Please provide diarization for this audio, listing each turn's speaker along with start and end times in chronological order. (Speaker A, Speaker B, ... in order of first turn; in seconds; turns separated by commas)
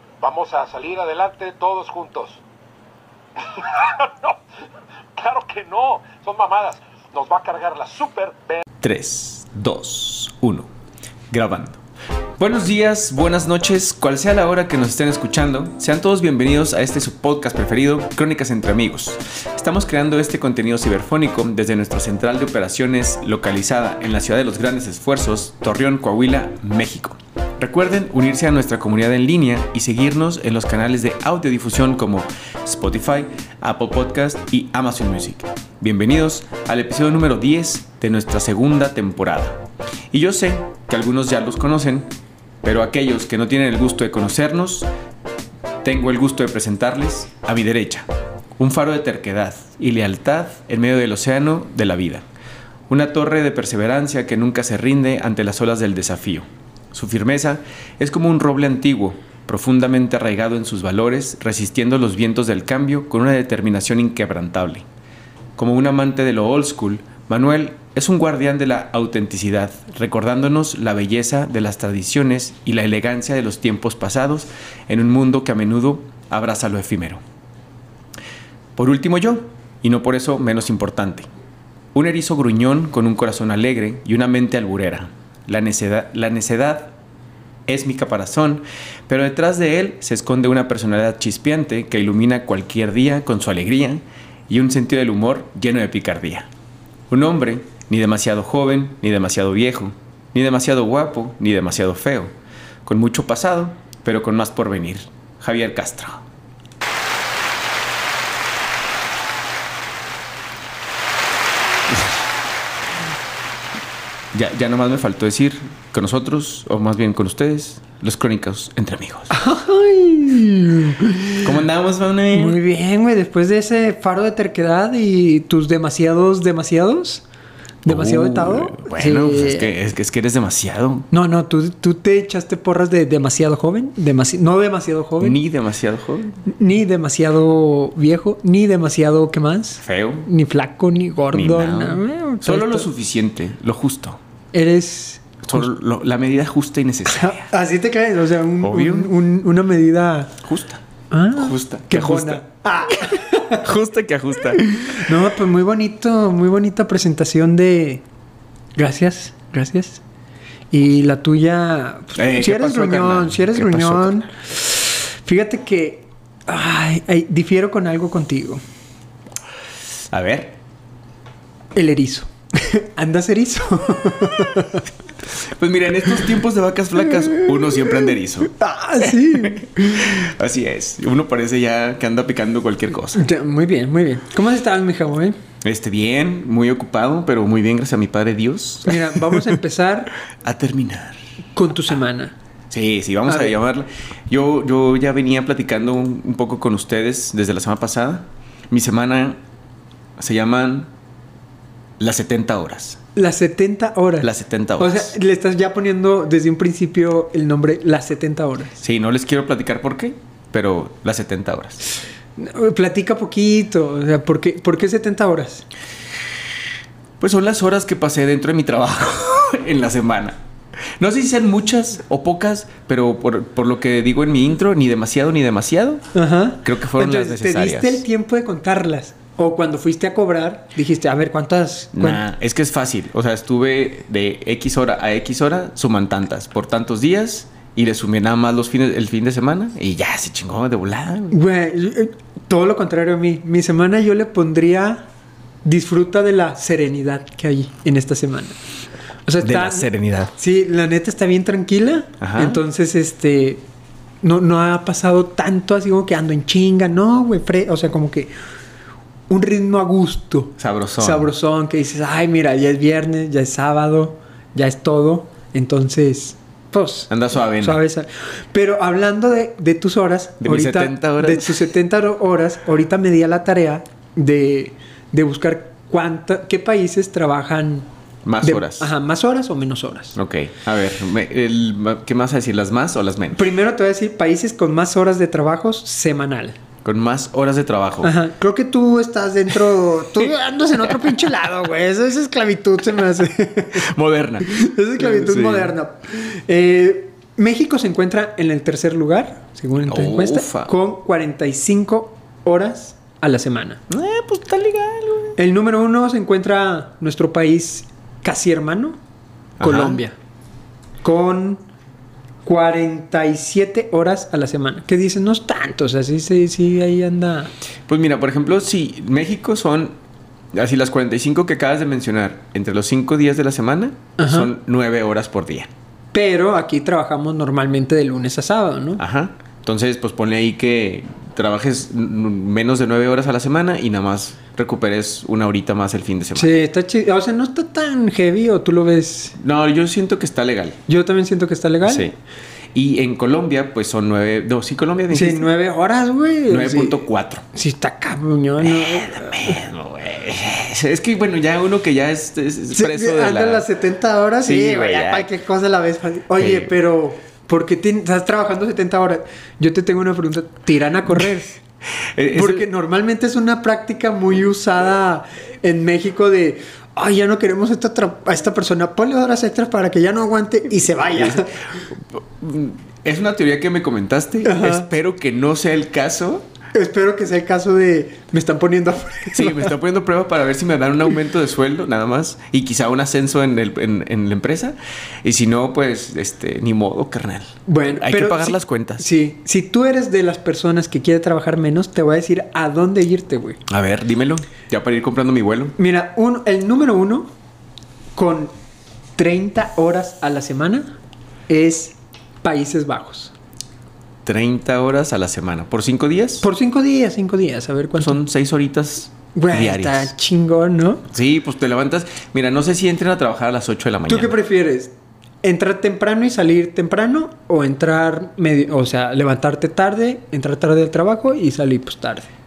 Speaker A: 0.2-2.4, Speaker A: 3.4-4.4, Speaker A: 5.2-8.6, Speaker B: 8.8-10.7, Speaker B: 11.3-11.8, Speaker B: 12.4-42.1, Speaker B: 42.6-44.9, Speaker B: 45.8-52.2, Speaker B: 52.9-64.8, Speaker B: 65.6-77.2, Speaker B: 78.8-81.3, Speaker B: 81.9-86.9, Speaker B: 87.7-96.5, Speaker B: 97.1-102.3, Speaker B: 102.8-106.2, Speaker B: 111.9-112.1, Speaker B: 114.3-119.3, Speaker C: 119.3-121.5, Speaker B: 121.4-122.6, Speaker C: 122.3-127.2, Speaker C: 127.8-129.7, Speaker B: 127.8-131.1, Speaker C: 131.1-135.4, Speaker B: 135.2-136.4, Speaker C: 136.4-142.9, Speaker B: 139.8-140.3, Speaker B: 141.3-144.2, Speaker C: 144.5-145.6, Speaker B: 145.4-147.5, Speaker C: 147.1-150.4, Speaker B: 148.6-149.1, Speaker B: 150.4-150.8, Speaker C: 151.1-153.7, Speaker B: 151.3-155.1, Speaker C: 154.7-158.0, Speaker C: 158.8-160.0, Speaker C: 160.7-168.6, Speaker B: 162.1-164.2, Speaker B: 170.1-170.6, Speaker C: 171.7-174.9, Speaker B: 175.4-178.5, Speaker C: 177.2-180.2, Speaker B: 179.2-183.3, Speaker C: 183.1-185.4, Speaker B: 185.6-189.5, Speaker C: 188.8-190.1, Speaker B: 190.4-191.2, Speaker C: 191.5-192.3, Speaker B: 192.7-199.4, Speaker C: 193.3-193.6, Speaker B: 200.2-200.9, Speaker B: 202.0-203.0, Speaker C: 203.1-208.7, Speaker B: 204.2-205.2, Speaker B: 208.8-211.8, Speaker C: 212.4-215.6, Speaker B: 217.2-220.4, Speaker B: 221.0-226.0, Speaker C: 226.1-232.2, Speaker B: 226.6-228.0, Speaker B: 231.9-241.4, Speaker C: 241.3-245.0, Speaker C: 245.6-248.6, Speaker C: 249.2-253.6, Speaker B: 249.4-250.3, Speaker B: 252.2-252.6, Speaker C: 254.2-258.3, Speaker C: 259.3-277.9, Speaker B: 260.6-261.3, Speaker B: 267.1-267.8, Speaker B: 270.4-271.6, Speaker B: 278.2-278.9, Speaker C: 278.4-280.2, Speaker B: 280.1-283.4, Speaker C: 283.3-286.6, Speaker B: 286.8-288.1, Speaker C: 288.0-293.9, Speaker B: 293.7-295.7, Speaker C: 294.4-303.8, Speaker B: 299.9-300.7, Speaker B: 303.9-305.4, Speaker C: 305.4-309.0, Speaker B: 309.6-310.0, Speaker C: 309.6-310.1, Speaker C: 311.0-311.6, Speaker C: 312.4-317.5, Speaker B: 317.9-319.9, Speaker B: 320.5-325.7, Speaker C: 324.2-324.5, Speaker C: 326.1-329.0, Speaker B: 329.0-336.5, Speaker C: 336.3-339.4, Speaker B: 339.4-340.8, Speaker C: 340.9-342.1, Speaker B: 341.8-342.1, Speaker B: 342.7-345.5, Speaker C: 345.1-349.6, Speaker B: 346.5-347.4, Speaker B: 348.6-353.6, Speaker C: 352.7-361.6, Speaker B: 354.4-355.3, Speaker B: 356.4-356.7, Speaker B: 362.1-362.6, Speaker C: 362.3-371.5, Speaker B: 371.0-376.5, Speaker C: 374.4-374.9, Speaker C: 376.7-379.7, Speaker B: 379.3-389.1, Speaker C: 387.7-393.6, Speaker B: 393.7-395.8, Speaker C: 395.8-397.3, Speaker C: 398.1-398.5, Speaker C: 399.2-400.9, Speaker C: 401.5-403.3, Speaker B: 404.2-406.5, Speaker C: 406.4-408.2, Speaker B: 408.0-410.1, Speaker C: 409.3-411.0, Speaker B: 411.1-414.3, Speaker C: 414.1-422.3